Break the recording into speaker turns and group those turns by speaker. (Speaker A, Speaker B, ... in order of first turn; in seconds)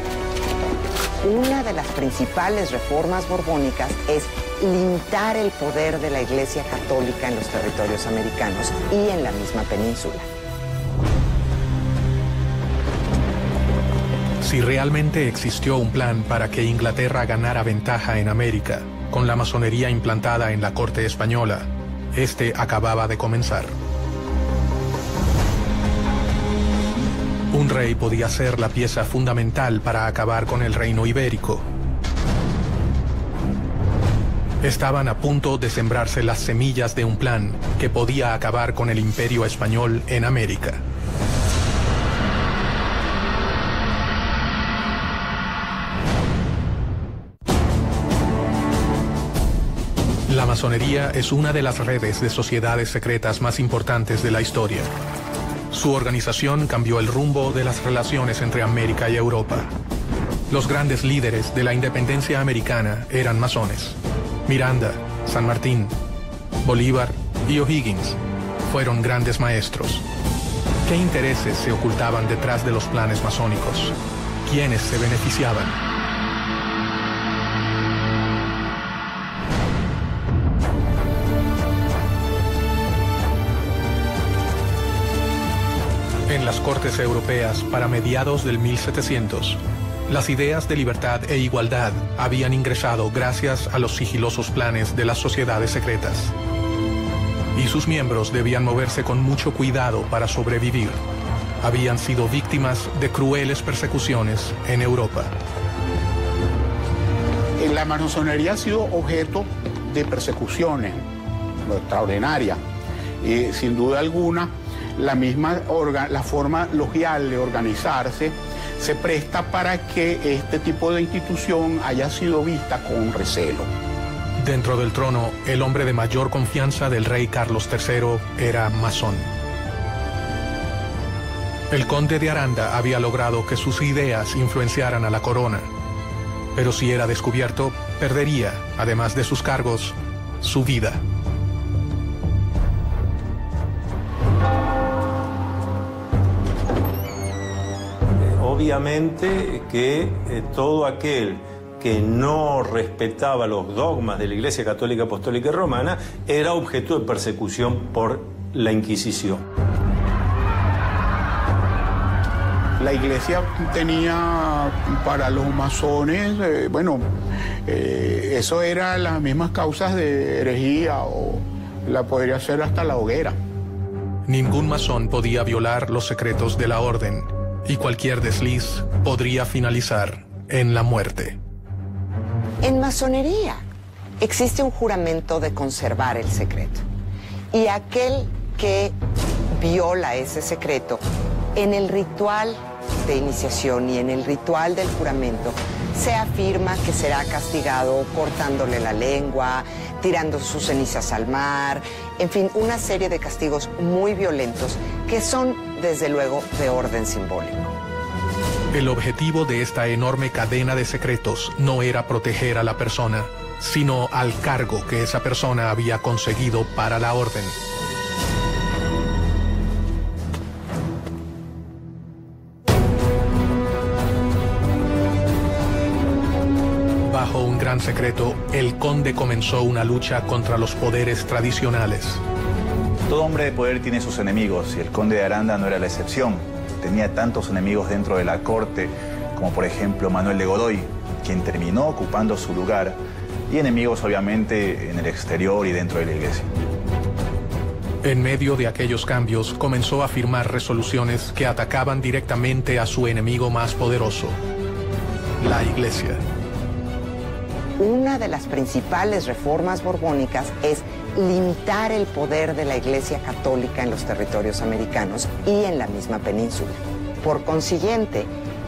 Speaker A: 1.2-10.3, 182.6-183.6, 184.2-186.8, 187.5-188.9, 189.5-191.0, 191.6-207.7, 257.8-268.3
Speaker B: 14.4-23.8, 27.5-31.6, 34.6-40.8, 50.3-54.9, 55.7-59.7, 60.5-66.0, 66.6-70.1, 70.8-73.9, 74.5-75.8, 86.3-96.3, 97.5-101.0, 101.6-105.3, 124.4-129.3, 131.7-135.7, 136.6-141.0, 174.3-181.4, 208.7-217.6, 227.1-232.2, 248.0-254.4, 255.4-256.2
Speaker C: 107.6-111.1, 111.7-112.6, 113.2-123.7, 162.8-167.1, 167.7-173.4
Speaker D: 148.2-159.4
Speaker E: 233.1-243.0, 243.5-246.5